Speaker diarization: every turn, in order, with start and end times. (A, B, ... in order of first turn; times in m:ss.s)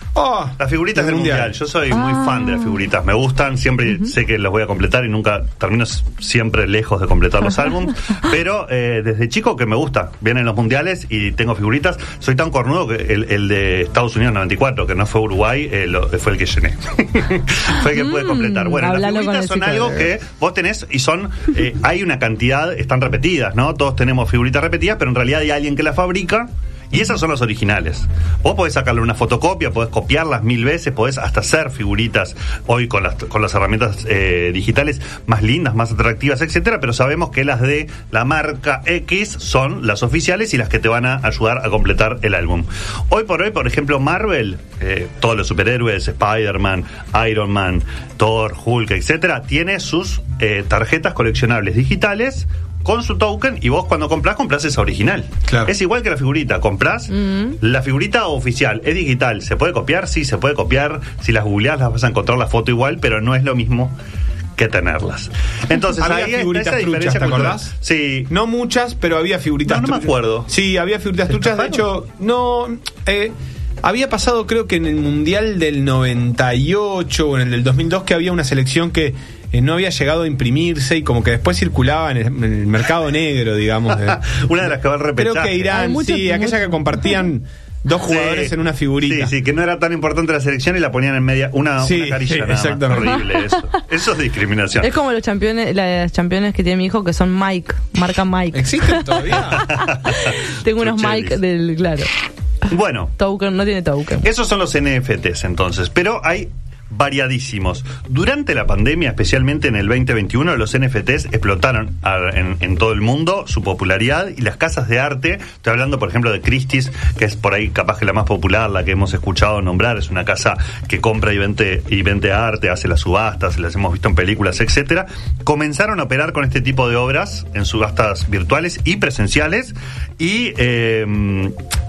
0:00.2-0:01.6 A
0:00.6-1:04.0 B
0:01.9-0:02.7 C
0:17.9-0:20.1 C
1:04.6-1:08.3 B
1:06.0-1:07.7 A
1:08.3-1:24.2 A
1:09.6-1:10.5 B
1:11.3-1:11.8 B
1:23.9-1:25.8 B
1:25.2-1:29.3 A
1:25.7-1:27.2 C
1:28.1-1:34.9 B
1:31.8-1:33.2 A
1:33.0-1:33.5 C
1:34.8-1:42.1 C
1:38.5-1:39.7 A
1:39.7-1:41.4 B
1:42.7-1:43.1 B
1:43.2-1:44.3 C
1:44.2-2:11.6 B